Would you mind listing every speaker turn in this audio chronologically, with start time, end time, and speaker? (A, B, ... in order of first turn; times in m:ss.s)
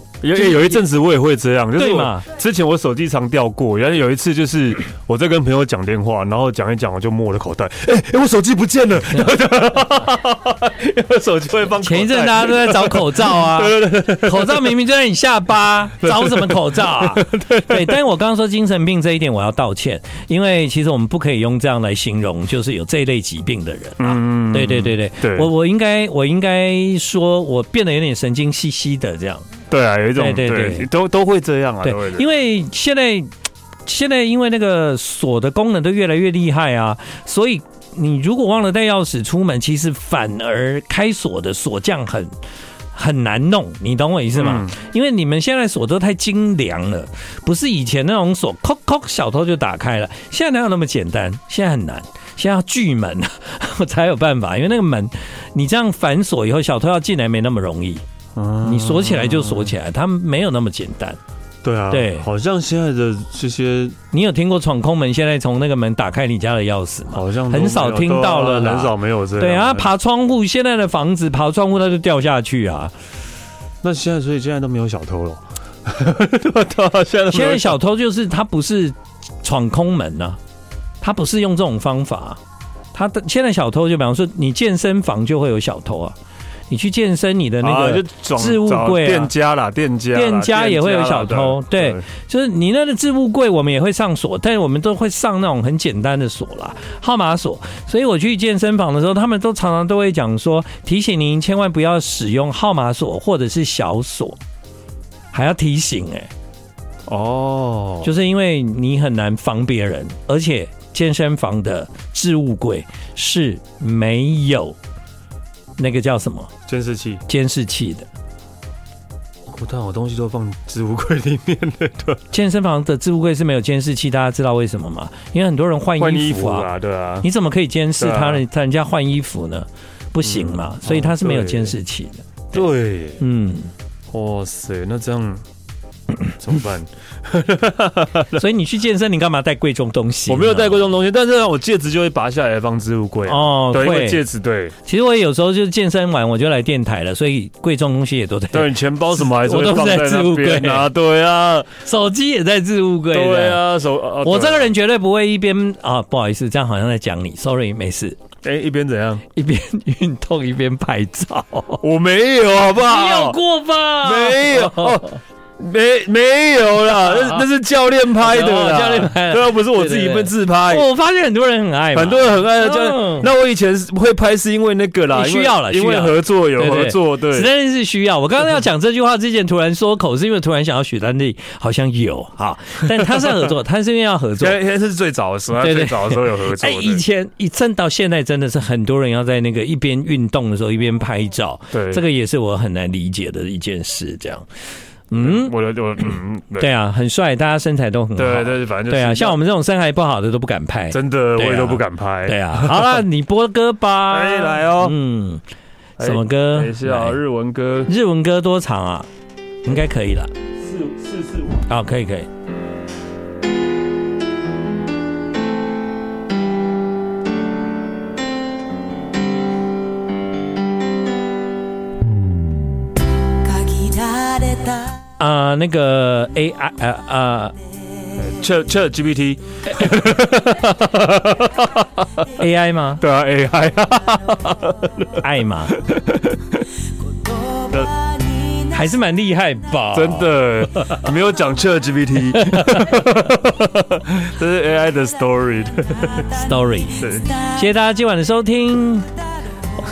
0:00.2-0:14.8 A
0:00.3-0:00.8 B
0:01.8-0:02.2 B
0:11.8-0:29.4 B
0:16.0-0:18.0 A
0:24.0-0:25.5 A
0:29.7-0:32.2 A
0:30.2-0:30.9 B
0:31.8-0:33.3 B
0:33.8-0:42.3 B
0:42.9-0:58.0 B
0:44.3-0:44.7 A
0:58.3-0:59.7 A
0:58.6-1:01.2 B
1:01.6-1:04.0 A
1:01.9-1:02.3 B
1:04.1-1:12.9 B
1:07.1-1:09.9 A
1:13.8-1:17.8 A
1:17.3-1:20.4 B
1:21.0-1:22.4 B
1:22.9-1:26.2 B
1:26.7-1:29.3 B
1:27.6-1:32.0 A
1:30.1-1:44.4 B
1:45.3-1:46.3 B
1:47.0-1:48.1 A
1:48.0-1:54.8 B
1:55.8-1:56.5 B
1:56.7-1:57.2 A
1:57.3-1:58.1 B
1:59.5-2:02.2 A
2:02.3-2:06.7 B
2:06.0-2:07.3 A
2:07.2-2:12.7 B
2:08.0-2:08.4 A
2:10.2-2:11.7 A
2:12.5-2:13.2 A
2:13.2-2:13.7 B
2:14.1-2:15.4 A
2:16.4-2:18.4 A
2:18.3-2:20.9 B
2:20.3-2:24.7 A
2:23.2-2:24.2 B
2:24.8-2:30.9 B
2:28.5-2:31.8 A
2:31.8-2:33.7 B
2:33.1-2:34.7 A
2:34.2-2:38.2 B
2:38.4-2:39.2 A
2:39.3-2:41.8 B
2:41.8-2:43.4 A
2:42.8-2:45.0 B
2:44.0-2:50.8 A
2:47.1-2:47.4 B
2:48.2-2:53.3 B
2:51.9-2:57.5 A
2:55.1-3:04.6 B
3:04.4-3:07.0 A
3:05.6-3:14.5 B
3:11.7-3:12.0 A
3:15.1-3:15.5 B
3:15.2-3:16.7 A
3:16.6-3:25.4 B
3:18.2-3:19.4 A
3:20.9-3:23.0 A
3:24.1-3:25.0 A
3:26.0-3:27.9 A
3:26.0-3:27.2 B
3:27.9-3:29.1 B
3:29.6-3:30.3 B
3:30.5-3:31.7 A
3:31.7-3:32.3 B
3:43.4-3:44.9 C
3:45.2-3:47.5 B
3:48.2-3:52.2 A
3:52.3-3:53.0 B
3:53.0-3:56.6 A
3:55.2-3:55.8 B
3:57.2-3:58.7 C
3:58.7-4:01.0 B
3:59.9-4:06.4 A
4:02.3-4:03.0 B
4:06.3-4:07.0 B
4:07.0-4:07.3 A
4:07.5-4:09.1 B